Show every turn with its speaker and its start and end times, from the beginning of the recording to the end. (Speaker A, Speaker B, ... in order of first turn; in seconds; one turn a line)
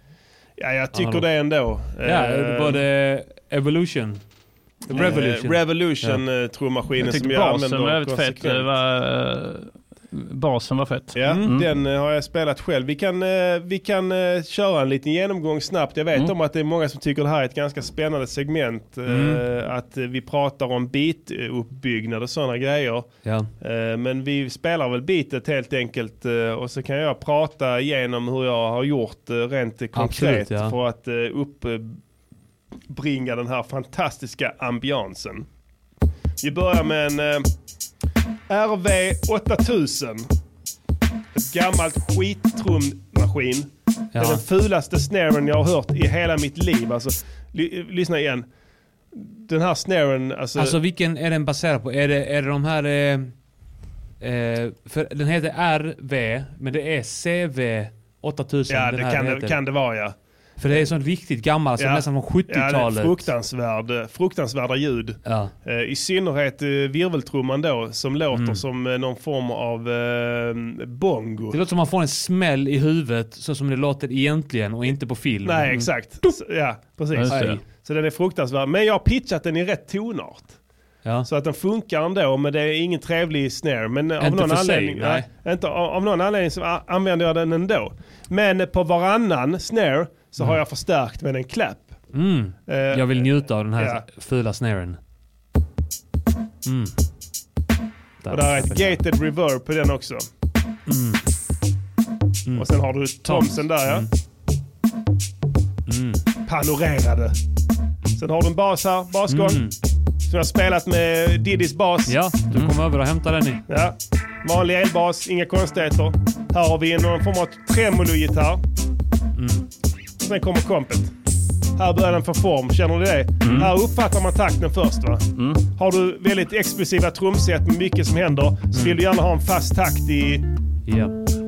Speaker A: 0.6-2.8
Speaker B: 0.9-1.3
Speaker B: 1.8-6.2
Speaker A: 4.9-8.7
Speaker C: 7.0-11.7
Speaker A: 11.1-32.0
Speaker B: 19.1-19.4
Speaker B: 29.9-30.7
Speaker A: 32.9-35.5
Speaker A: 36.4-37.5
Speaker A: 38.5-40.3
Speaker A: 41.3-48.5
Speaker B: 44.1-44.4
Speaker A: 49.1-50.8
Speaker B: 50.5-53.5
Speaker B: 54.2-59.6
Speaker A: 58.7-60.9
Speaker B: 60.6-63.3
Speaker A: 61.8-71.6
Speaker B: 65.2-65.5
Speaker B: 68.3-68.6
Speaker B: 71.5-75.9
Speaker A: 75.4-80.5
Speaker C: 77.1-77.6
Speaker B: 77.3-77.6
Speaker A: 81.2-91.9
Speaker B: 84.2-85.3
Speaker B: 92.1-95.0
Speaker A: 92.7-94.0
Speaker B: 96.6-96.9
Speaker B: 98.2-99.0
Speaker A: 98.3-100.3
Speaker B: 100.9-101.2
Speaker B: 102.5-104.1
Speaker A: 102.6-104.1
Speaker B: 105.9-106.2
Speaker A: 106.5-107.3
Speaker A: 108.2-109.6
Speaker B: 109.3-109.8
Speaker A: 110.3-112.2
Speaker B: 112.1-113.6
Speaker A: 113.7-118.6
Speaker B: 119.4-119.7
Speaker A: 120.2-121.1
Speaker A: 121.8-130.5
Speaker C: 123.4-123.7
Speaker C: 125.3-125.6
Speaker B: 128.7-129.0
Speaker B: 130.8-131.2